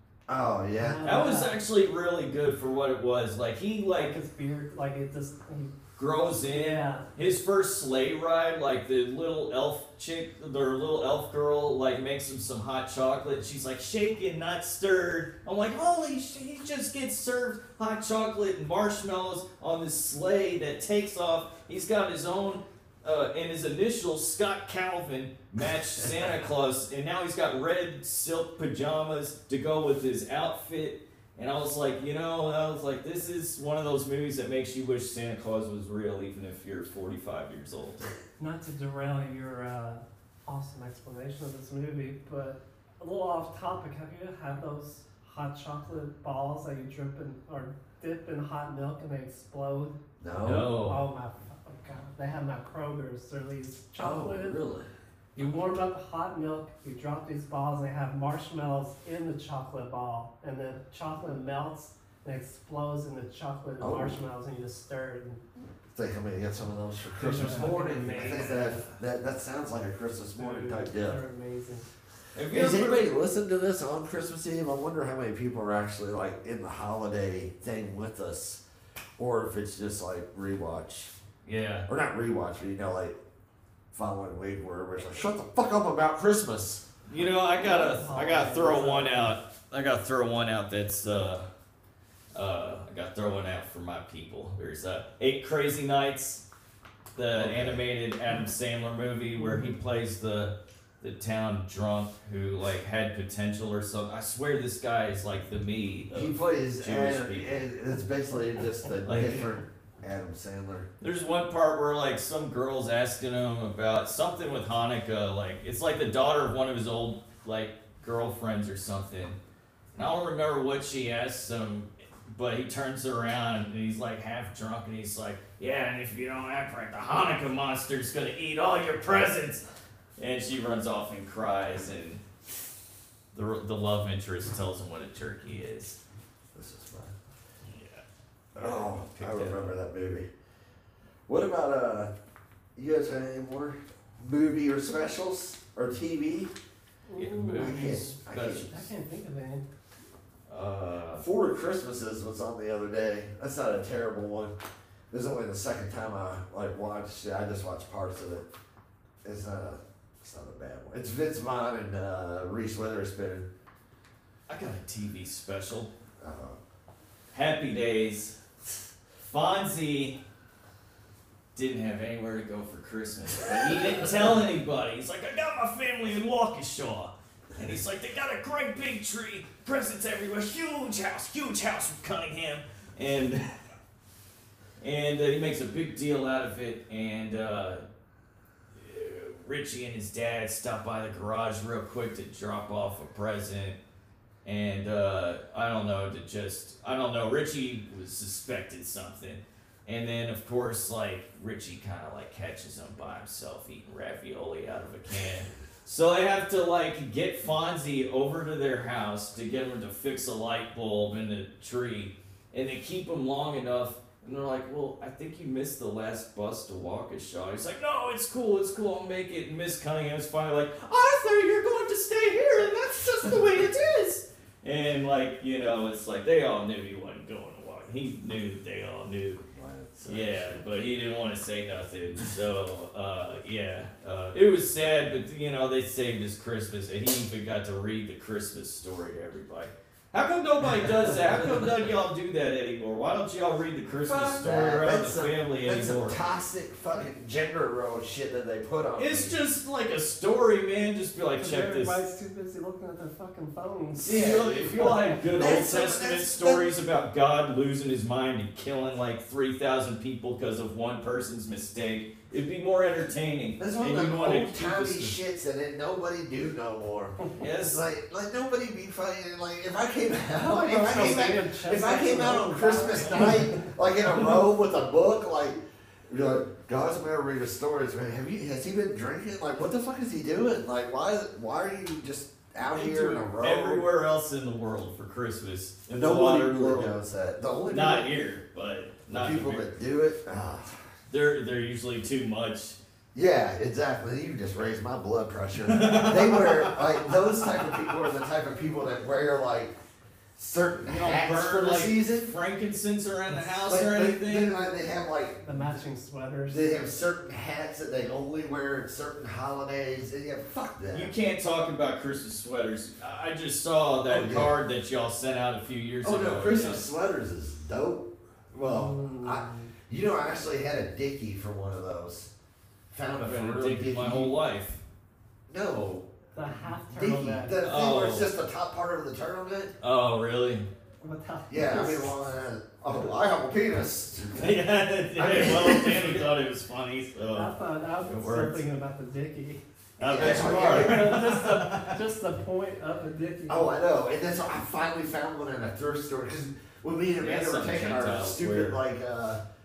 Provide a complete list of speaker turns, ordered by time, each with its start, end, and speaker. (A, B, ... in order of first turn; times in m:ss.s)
0:00.3-0:01.1 A
0:00.8-0:01.6 B
0:01.0-0:04.2 C
0:04.0-0:05.7 B
0:06.0-0:38.1 C
0:06.4-0:07.1 B
0:26.0-0:26.3 A
0:38.4-0:50.0 B
0:50.2-0:50.7 A
0:50.4-0:51.1 C
0:50.7-0:54.6 B
0:54.0-0:54.9 A
0:55.4-1:05.4 B
1:03.8-1:04.2 A
1:05.9-1:11.2 A
1:07.2-1:08.9 B
1:07.4-1:08.8 C
1:10.4-1:11.9 B
1:12.4-1:13.1 C
1:12.5-1:18.6 A
1:19.2-1:21.1 A
1:21.4-1:21.9 C
1:21.9-1:23.2 A
1:23.9-1:26.8 A
1:27.1-1:31.5 C
1:27.6-1:29.3 B
1:32.3-1:36.4 C
1:37.2-1:47.6 C
1:37.4-1:37.8 A
1:39.4-1:39.7 B
1:46.1-1:50.9 A
1:49.0-1:49.5 C
1:51.0-1:59.4 C
2:00.0-2:09.6 C
2:10.2-2:12.2 C
2:13.3-2:16.0 C
2:16.5-2:17.2 A
2:17.7-2:18.0 C
2:18.6-2:19.8 C
2:18.6-2:20.3 A
2:21.3-2:22.1 A
2:22.8-2:26.5 A
2:27.1-2:28.1 B
2:27.2-2:28.8 C
2:27.6-2:28.8 A
2:28.6-2:29.6 B
2:30.5-2:31.2 C
2:31.2-2:34.5 A
2:35.1-2:38.5 A
2:39.2-2:43.5 A
2:44.5-2:45.9 C
2:46.2-2:46.6 A
2:47.3-2:48.4 C
2:49.3-2:50.2 C
2:51.6-3:03.4 C
3:04.8-3:07.8 C
3:08.8-3:13.8 C
3:14.4-3:49.4 C
3:49.5-3:50.6 A
3:50.0-4:06.2 C
4:04.0-4:09.4 A
4:09.0-4:12.0 C
4:11.4-4:15.2 B
4:14.0-4:25.2 C
4:14.0-4:16.7 A
4:23.6-4:43.9 A
4:27.4-4:27.8 C
4:30.4-4:33.7 B
4:42.7-4:47.0 C
4:45.9-4:48.1 A
4:47.7-4:49.7 C
4:49.1-4:50.8 A
4:51.1-4:52.8 C
4:53.1-4:59.8 A
4:55.7-4:57.3 C
5:00.4-5:02.3 A
5:00.8-5:04.5 C
5:03.6-5:05.8 A
5:05.4-5:06.9 B
5:06.5-5:11.1 A
5:10.9-5:16.9 C
5:14.1-5:14.6 A
5:16.0-5:22.3 A
5:18.6-5:19.7 B
5:22.9-5:24.4 A
5:23.2-5:24.8 C
5:25.5-5:26.1 A
5:26.4-5:27.6 B
5:26.9-5:29.7 A
5:27.6-5:28.3 C
5:29.8-5:30.7 C
5:31.0-5:32.1 B
5:31.5-5:34.6 A
5:34.4-5:38.6 C
5:35.2-5:36.3 A
5:37.3-5:39.6 B
5:40.0-5:41.2 A
5:40.0-5:42.0 C
5:40.2-5:43.7 B
5:43.5-5:49.4 A
5:47.2-5:48.8 C